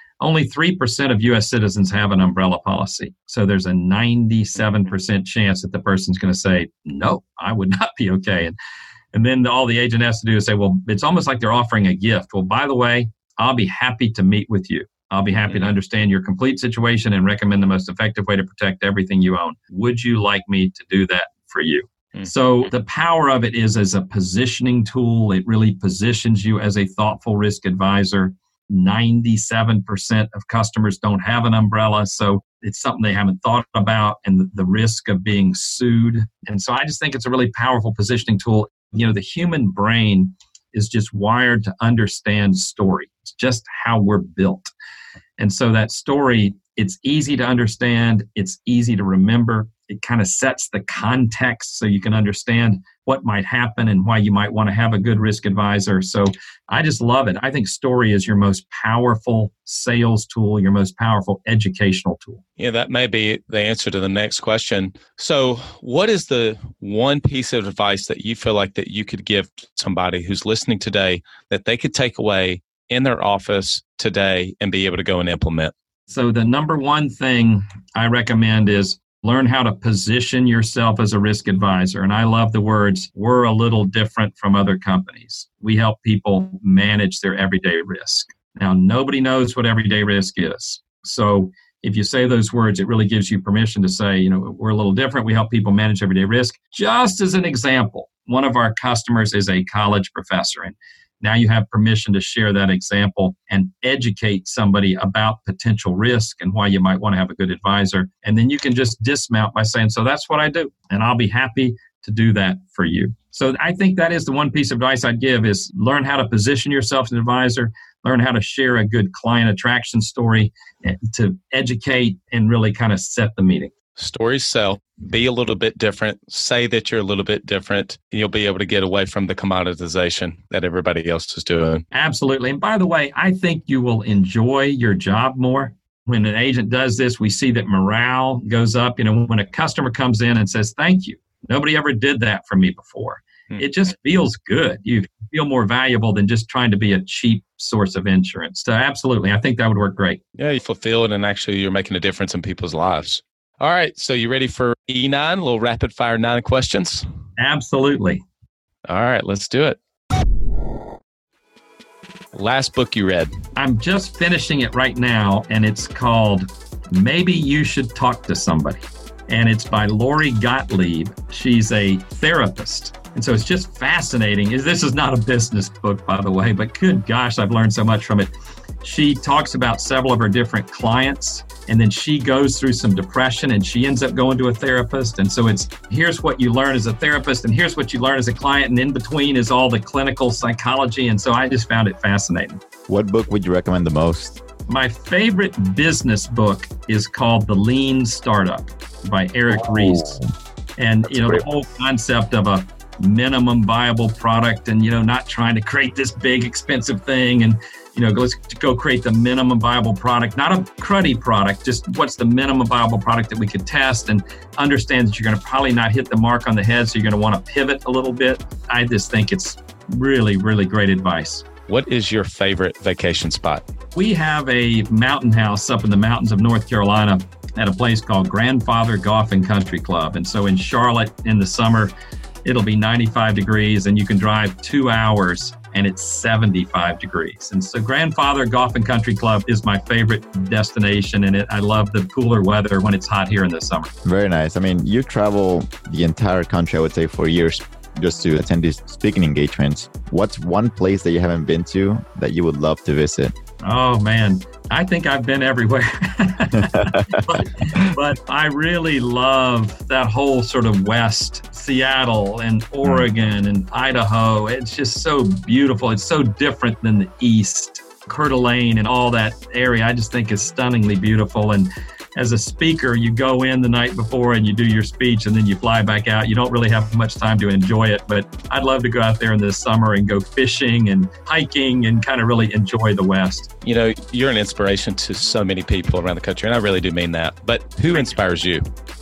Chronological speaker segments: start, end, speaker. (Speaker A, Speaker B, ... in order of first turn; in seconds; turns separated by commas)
Speaker A: 0.2-8.6, Speaker A: 9.1-44.7, Speaker A: 45.4-62.4, Speaker B: 62.6-75.7, Speaker A: 76.1-123.7, Speaker B: 124.0-131.8, Speaker A: 131.9-150.2, Speaker B: 150.4-157.1, Speaker A: 157.4-158.2, Speaker B: 158.9-159.8, Speaker B: 162.3-163.4, Speaker A: 163.6-178.3, Speaker A: 178.8-192.6, Speaker C: 192.9-194.4, Speaker A: 194.7-200.2, Speaker C: 199.5-200.3, Speaker A: 200.8-221.5, Speaker C: 201.1-201.4, Speaker B: 221.7-223.6, Speaker A: 223.9-231.9, Speaker A: 232.4-243.9, Speaker C: 244.0-253.3, Speaker A: 253.6-283.5, Speaker C: 256.5-257.9, Speaker B: 283.6-288.7, Speaker A: 287.9-288.1